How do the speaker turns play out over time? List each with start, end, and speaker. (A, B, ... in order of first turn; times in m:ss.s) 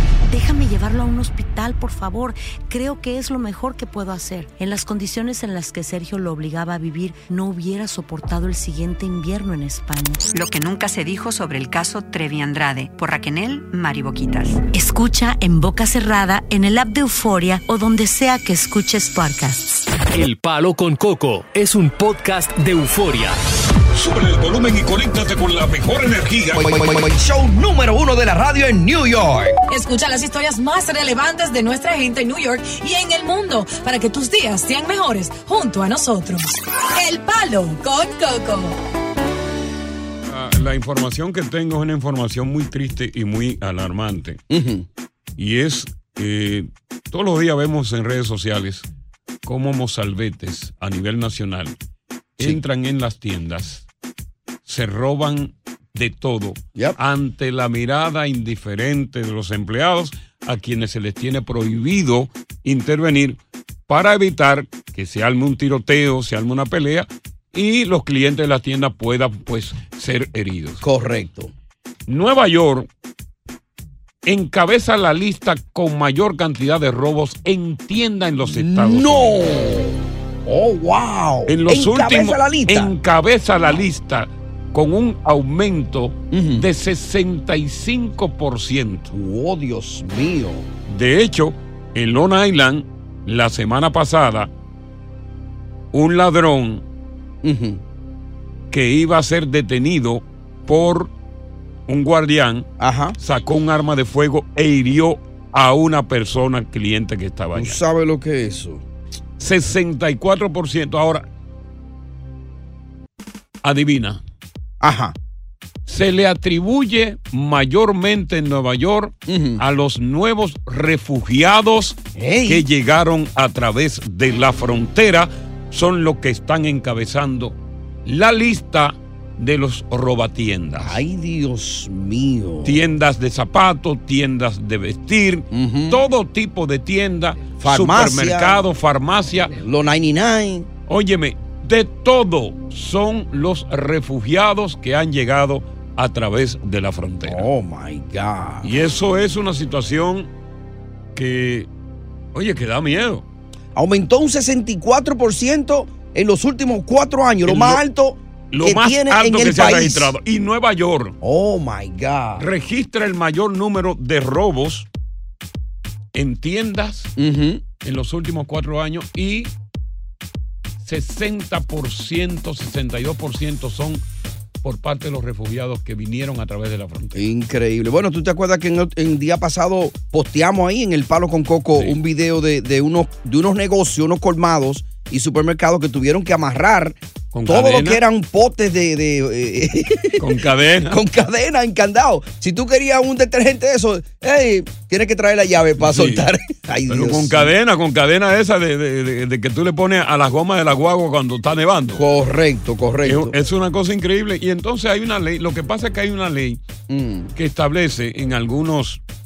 0:00.3-0:10.5 A
0:10.4-0:14.6 B
0:14.6-0:19.8 A
0:20.1-0:23.4 C
0:23.9-0:26.6 D
0:26.6-0:29.6 E
0:29.7-0:38.8 F
0:40.3-0:44.4 D
0:44.5-0:44.8 E
0:45.4-0:48.8 D
0:49.4-0:51.7 D
0:52.4-0:53.9 D
0:54.6-1:10.8 D
1:10.8-1:11.5 E
1:12.1-1:12.9 D
1:14.2-1:19.4 D
1:18.5-1:22.9 E
1:21.5-1:29.1 D
1:26.3-1:26.7 E
1:29.1-1:30.7 E
1:30.9-1:34.5 D
1:35.9-1:36.8 D
1:37.4-1:37.8 E
1:38.7-1:41.1 D
1:41.9-1:47.8 D
1:42.8-1:43.2 E
1:47.6-1:48.8 E
1:49.4-1:51.2 D
1:53.6-1:54.2 D
1:54.8-1:55.2 E
1:55.8-2:11.0 D
1:59.3-1:59.6 E
2:02.1-2:02.6 E
2:10.8-2:12.8 E
2:12.6-2:19.5 D
2:15.5-2:16.0 E
2:17.6-2:18.6 E
2:19.5-2:20.7 E
2:20.9-2:27.5 D
2:27.2-2:28.7 E
2:28.6-2:30.3 D
2:31.1-2:31.7 D
2:32.3-2:33.2 D
2:33.7-2:40.1 E
2:37.4-2:37.8 D
2:38.5-2:41.2 D
2:41.2-2:42.4 E
2:42.4-2:44.9 D
2:46.1-2:47.1 D
2:47.2-2:47.6 E
2:47.8-2:49.5 D
2:50.8-2:54.0 D
2:54.6-2:57.3 D
2:57.1-3:10.2 E
3:07.3-3:08.0 D
3:10.2-3:11.0 D
3:10.9-3:17.5 E
3:15.8-3:16.3 D
3:16.9-3:22.0 D
3:21.9-3:23.3 E
3:23.0-3:26.6 D
3:26.9-3:27.3 E
3:27.3-3:29.0 D